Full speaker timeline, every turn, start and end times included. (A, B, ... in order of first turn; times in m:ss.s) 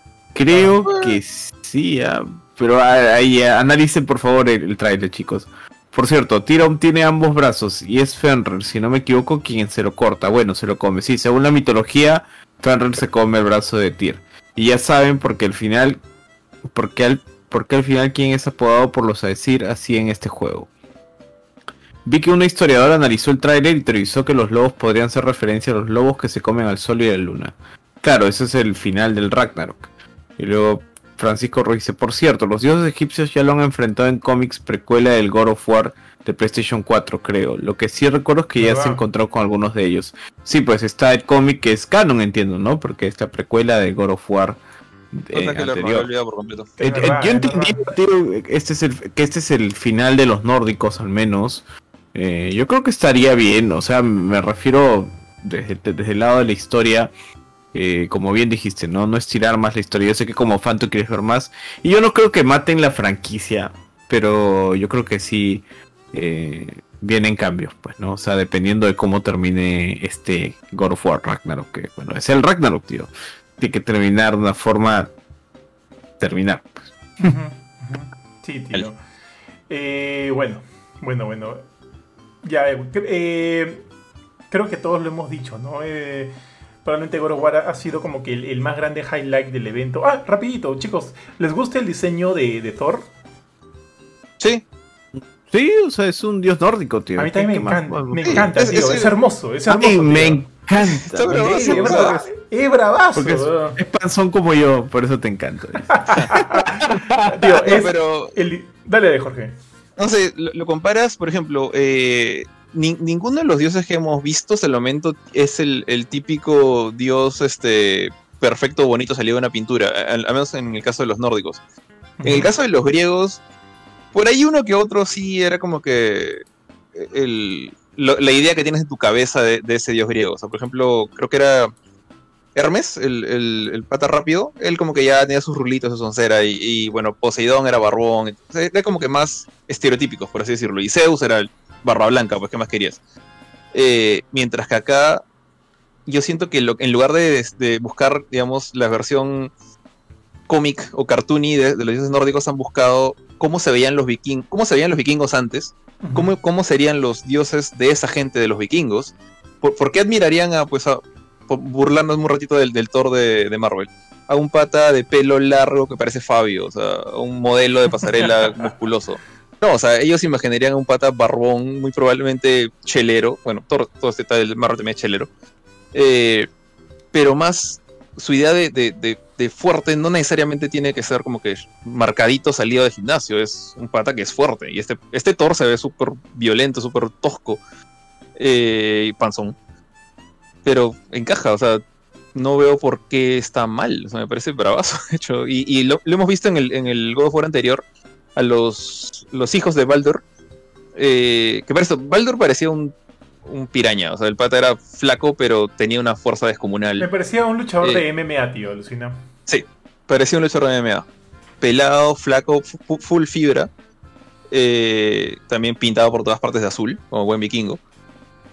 0:00.3-0:16.0 A
0:00.5-0:00.8 B
0:00.9-0:01.2 C
0:16.7-0:20.7 A
0:22.0-0:44.6 A
0:38.6-0:39.0 B
0:45.1-0:46.1 A
0:45.3-0:46.7 C
0:46.8-0:47.9 B
0:46.8-0:57.1 A
0:57.7-1:15.1 A
1:16.2-1:17.3 A
1:17.2-1:19.0 B
1:19.7-1:21.6 B
1:22.4-1:23.8 B
1:24.5-1:26.3 B
1:26.8-1:33.1 B
1:35.5-1:38.5 A
1:37.2-1:40.5 B
1:38.2-1:39.1 C
1:39.7-1:42.3 A
1:41.0-1:42.2 C
1:41.3-1:43.8 B
1:43.2-1:47.6 A
1:45.9-1:49.6 B
1:47.6-1:48.4 C
1:50.0-2:01.6 C
2:02.2-2:02.5 B
2:02.2-2:03.4 C
2:04.1-2:06.4 C
2:07.0-2:11.7 C
2:12.6-2:23.0 C
2:23.7-2:25.2 C
2:26.1-2:29.5 C
2:30.5-2:55.3 C
2:36.0-2:36.4 B
2:55.9-2:56.5 C
2:57.1-3:07.6 C
3:08.4-3:09.6 C
3:10.6-3:11.8 C
3:12.4-3:17.8 C
3:18.4-3:20.2 C
3:21.0-3:27.1 C
3:27.0-3:29.2 B
3:29.5-3:31.0 C
3:31.6-3:33.7 C
3:34.5-3:37.8 C